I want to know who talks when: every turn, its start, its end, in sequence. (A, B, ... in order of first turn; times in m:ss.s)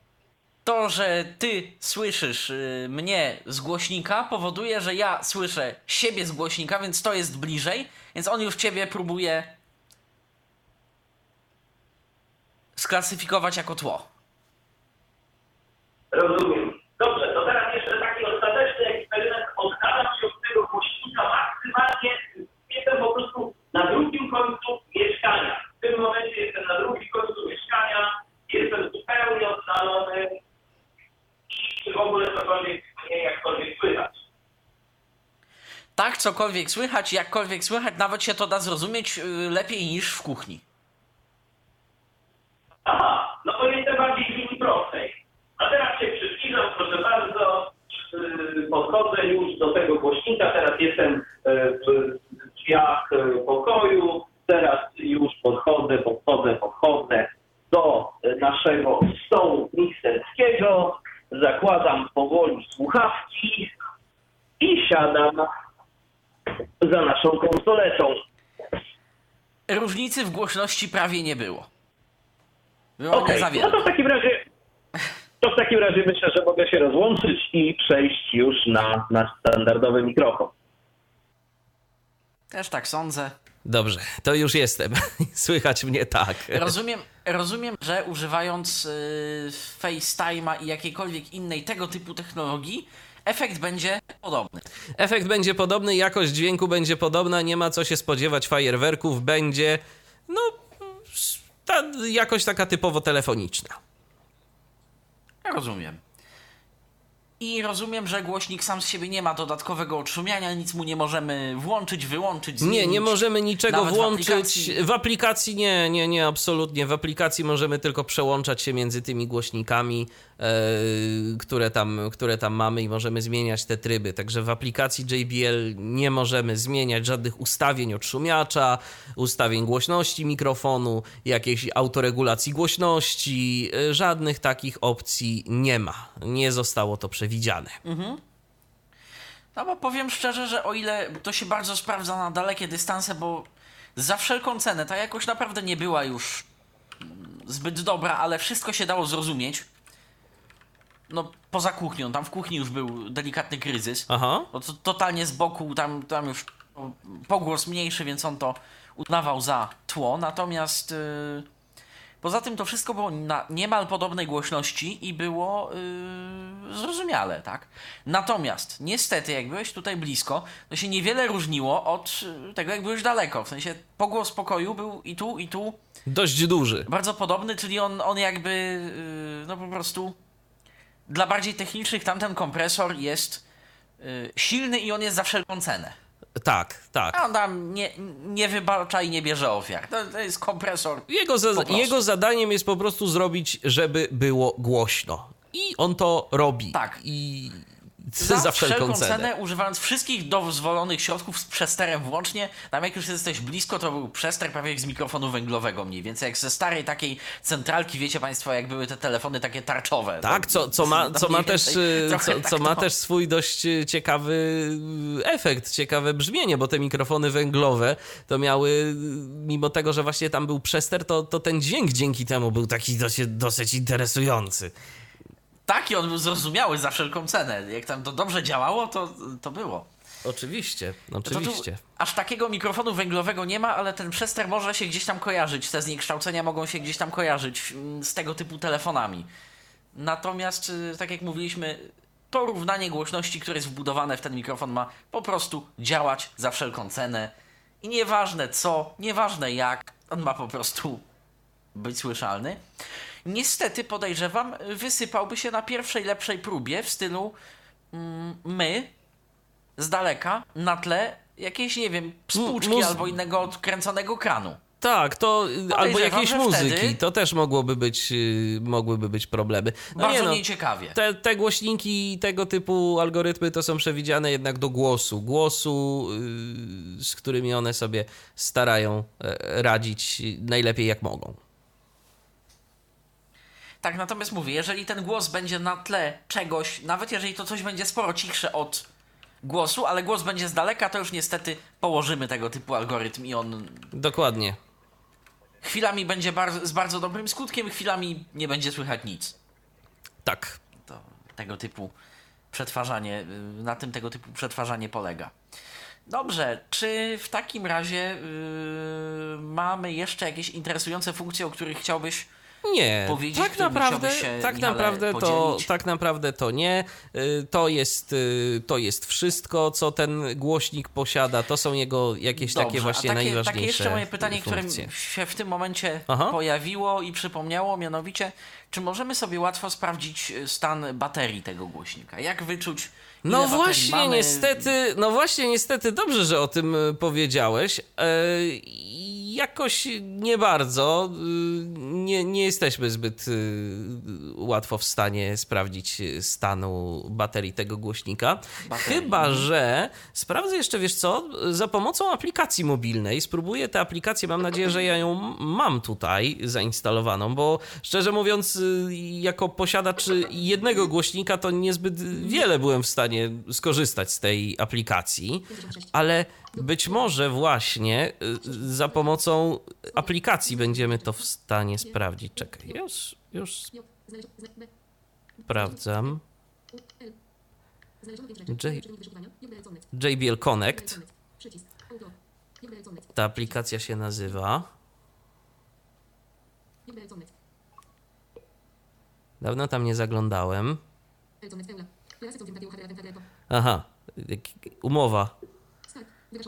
0:00.6-0:09.6 A
0:12.8-0:14.1 A
0:16.1-0:30.4 B
0:31.5-0:34.2 B
0:36.0-0:40.6 A
0:42.8-1:03.7 B
1:04.6-1:05.5 B
1:06.8-1:08.2 B
1:09.7-1:11.7 A
1:13.0-1:13.9 A
1:13.1-1:14.4 B
1:15.4-1:20.5 B
1:22.5-1:23.3 A
1:23.6-1:26.7 C
1:26.5-1:34.6 A
1:35.0-1:43.8 C
1:45.4-1:46.0 A
1:47.4-1:54.8 A
1:52.6-2:17.8 C
2:17.8-2:18.2 A
2:19.5-2:26.5 A
2:27.0-2:29.6 A
2:31.1-2:41.5 A
2:34.1-2:34.5 C
2:42.2-2:55.8 A
2:56.1-2:56.9 C
2:56.9-3:00.2 A
3:01.1-3:03.4 A
3:04.0-3:06.0 A
3:06.4-3:07.2 C
3:07.1-3:12.0 A
3:11.1-3:19.3 C
3:16.7-3:17.0 A
3:18.2-3:32.9 A
3:30.2-3:44.7 C
3:45.7-3:49.9 A
3:50.2-3:51.8 C
3:51.2-3:59.3 A
3:59.9-4:11.0 A
4:11.7-4:12.6 A
4:13.2-4:17.4 A
4:17.9-4:18.9 A
4:19.8-4:24.6 A
4:22.4-4:23.1 C
4:24.8-4:30.4 C
4:25.7-4:27.0 A
4:30.0-4:31.0 A
4:30.9-4:41.4 C
4:43.8-4:48.9 A
4:49.4-4:53.9 A
4:53.9-4:54.6 C
4:55.6-4:59.4 A
5:00.2-5:00.6 C
5:00.9-5:01.9 A
5:02.5-5:05.3 A
5:06.1-5:12.3 A
5:12.6-5:24.9 C
5:13.0-5:15.7 A
5:22.4-5:34.7 A
5:26.1-5:26.3 C
5:33.2-6:13.8 C
5:48.6-5:49.5 A
6:15.4-6:16.2 C
6:18.4-6:19.0 C
6:19.9-6:21.1 C
6:23.1-6:24.7 C
6:29.4-6:30.8 C
6:33.5-6:35.3 C